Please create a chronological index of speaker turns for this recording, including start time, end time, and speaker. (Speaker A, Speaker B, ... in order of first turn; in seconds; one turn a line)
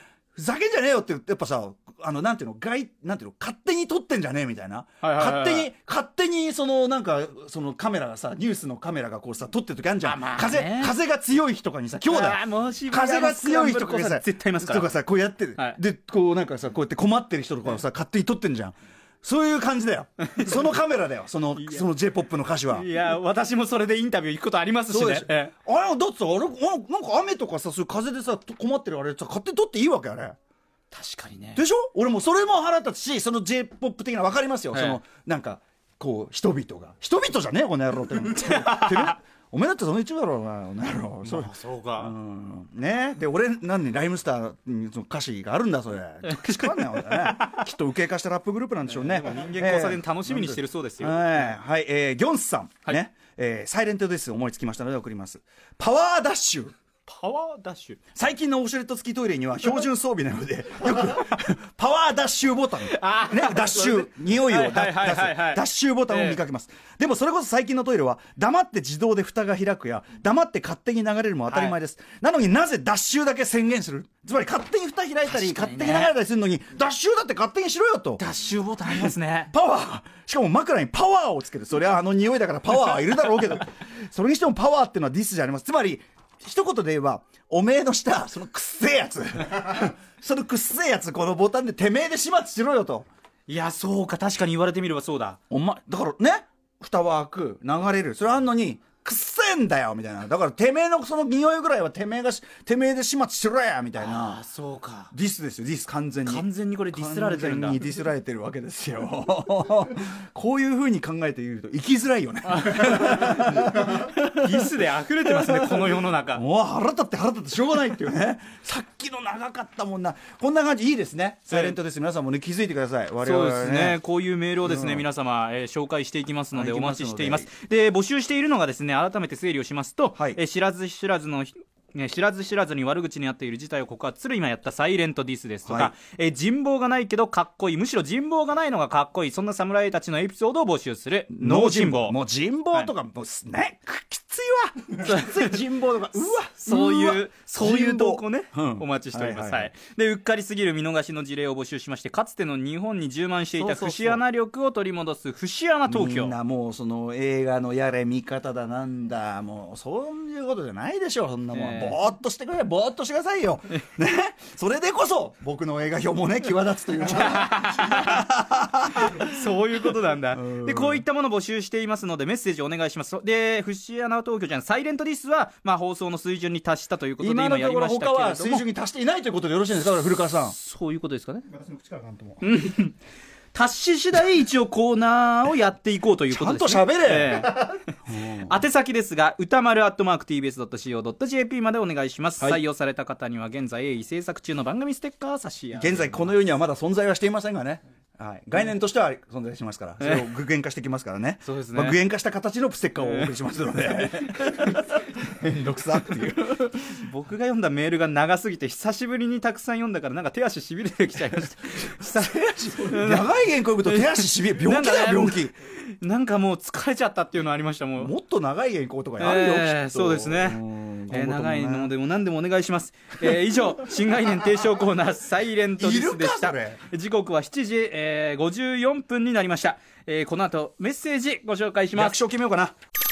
Speaker A: 0.3-22.9
Speaker B: 5.0-5.7
Speaker B: 10.0-10.9
Speaker B: 12.0-14.9
Speaker B: 20.2-20.6
Speaker B: 21.6-21.8
Speaker B: 22.7-25.5
Speaker A: 24.9-30.4
Speaker B: 30.9-31.6
Speaker A: 31.5-56.7
Speaker B: 34.7-35.0
Speaker B: 38.4-39.1
Speaker B: 41.2-42.1
Speaker B: 46.2-47.6
Speaker B: 48.9-51.5
Speaker B: 57.0-58.0
Speaker A: 58.1-78.2
Speaker B: 62.8-66.4
Speaker B: 71.5-71.8
Speaker B: 75.2-76.1
Speaker B: 78.2-79.5
Speaker A: 78.9-93.1
Speaker B: 93.5-95.4
Speaker A: 95.5-104.4
Speaker B: 104.0-105.1
Speaker A: 105.1-114.7
Speaker B: 106.2-107.8
Speaker B: 112.5-116.4
Speaker A: 115.2-124.0
Speaker B: 121.5-121.8
Speaker B: 123.2-142.2
Speaker A: 124.6-125.0
Speaker A: 126.5-127.5
Speaker A: 135.7-135.9
Speaker A: 141.3-149.7
Speaker B: 145.0-145.6
Speaker B: 146.5-156.3
Speaker A: 153.6-154.2
Speaker A: 155.9-169.3
Speaker B: 161.5-162.0
Speaker B: 167.1-168.3
Speaker B: 169.0-178.6
Speaker A: 170.3-171.0
Speaker A: 177.2-180.5
Speaker B: 180.3-181.4
Speaker A: 181.5-182.4
Speaker B: 182.4-182.9
Speaker B: 183.5-196.3
Speaker A: 186.3-187.6
Speaker A: 188.1-188.6
Speaker A: 195.8-206.7
Speaker B: 200.0-200.3
Speaker B: 201.4-202.0
Speaker B: 203.0-205.0
Speaker B: 206.3-218.1
Speaker A: 212.0-215.5
Speaker A: 218.0-221.9
Speaker B: 219.2-232.2
Speaker A: 225.8-226.8
Speaker A: 231.9-232.7